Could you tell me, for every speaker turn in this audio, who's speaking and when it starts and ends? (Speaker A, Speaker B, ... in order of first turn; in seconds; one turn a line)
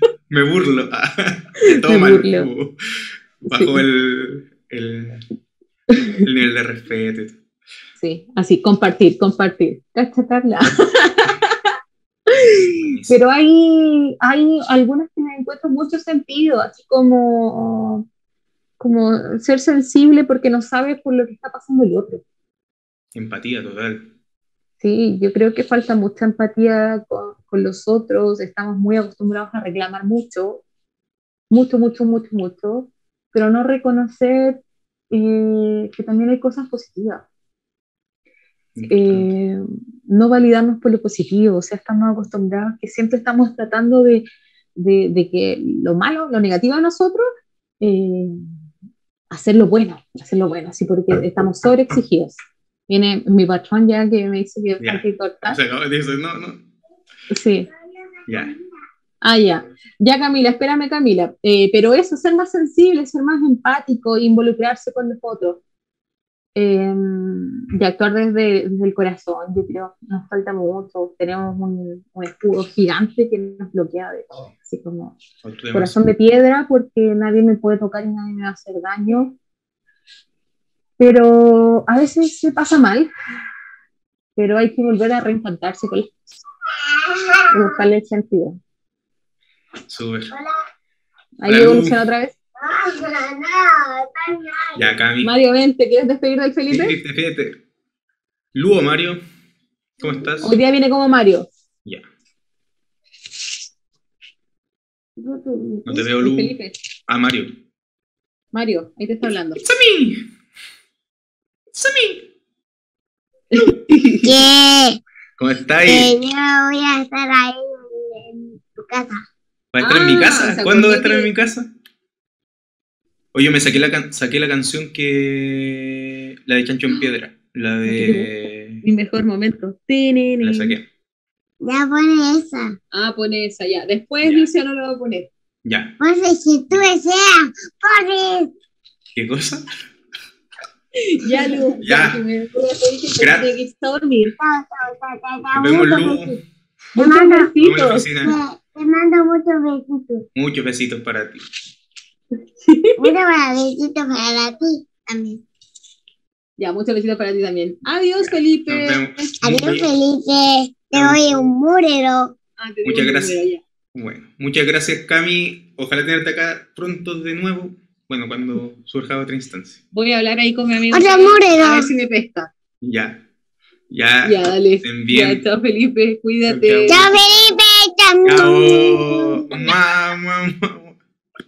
Speaker A: 0.3-5.2
Speaker B: 1.6-2.5
Speaker B: 3.5-3.8
Speaker B: 5.9-6.2
Speaker A: 6.2-7.4
Speaker B: 8.0-11.7
Speaker B: 12.3-18.1
Speaker A: 12.4-13.2
Speaker B: 18.8-22.2
Speaker A: 23.1-24.1
Speaker B: 24.8-30.6
Speaker B: 31.5-37.2
Speaker A: 38.8-39.3
Speaker B: 38.9-47.2
Speaker B: 47.8-48.4
Speaker B: 49.3-52.3
Speaker B: 52.9-55.6
Speaker A: 54.8-56.7
Speaker B: 57.3-57.7
Speaker A: 58.3-58.5
Speaker B: 59.2-65.6
Speaker B: 66.5-75.2
Speaker A: 75.4-76.0
Speaker B: 75.7-79.3
Speaker B: 81.0-83.1
Speaker B: 84.3-86.4
Speaker C: 86.9-87.7
Speaker B: 87.5-88.6
Speaker A: 89.9-90.3
Speaker B: 91.4-92.3
Speaker A: 91.5-92.0
Speaker C: 92.6-94.8
Speaker A: 94.8-95.3
Speaker B: 95.2-97.0
Speaker A: 96.7-97.6
Speaker A: 98.5-99.2
Speaker A: 100.0-100.5
Speaker B: 100.4-101.5
Speaker C: 105.2-106.0
Speaker A: 105.8-106.5
Speaker B: 106.1-106.7
Speaker A: 107.1-107.6
Speaker B: 108.5-109.6
Speaker A: 109.6-110.3
Speaker A: 111.7-112.3
Speaker B: 113.5-114.3
Speaker C: 114.2-115.0
Speaker A: 115.4-116.1
Speaker C: 115.8-119.2
Speaker A: 119.7-121.7
Speaker B: 119.8-121.3
Speaker A: 123.3-128.8
Speaker B: 127.8-128.3
Speaker B: 128.8-130.8
Speaker A: 130.4-130.8
Speaker C: 131.6-132.8
Speaker B: 132.9-135.3
Speaker A: 134.2-134.5
Speaker A: 135.6-136.0
Speaker C: 136.0-138.5
Speaker A: 139.1-139.6
Speaker B: 140.9-144.3
Speaker C: 141.5-141.7
Speaker A: 141.8-142.2
Speaker A: 143.2-143.5
Speaker C: 144.4-146.4
Speaker A: 145.5-146.4
Speaker B: 146.9-148.2
Speaker C: 146.9-147.5
Speaker A: 147.6-148.3
Speaker C: 148.2-150.2
Speaker A: 150.3-151.4
Speaker B: 152.6-153.1
Speaker C: 153.0-155.4
Speaker B: 156.6-159.3
Speaker A: 158.2-159.9
Speaker C: 159.4-162.3
Speaker A: 160.9-161.4
Speaker B: 162.6-163.6
Speaker A: 162.8-163.4
Speaker A: 163.9-169.8
Speaker B: 169.9-172.5
Speaker C: 170.9-171.9
Speaker A: 172.8-173.2
Speaker A: 173.9-175.4
Speaker B: 174.2-177.2
Speaker A: 176.4-177.1
Speaker C: 176.9-179.4
Speaker A: 178.2-181.0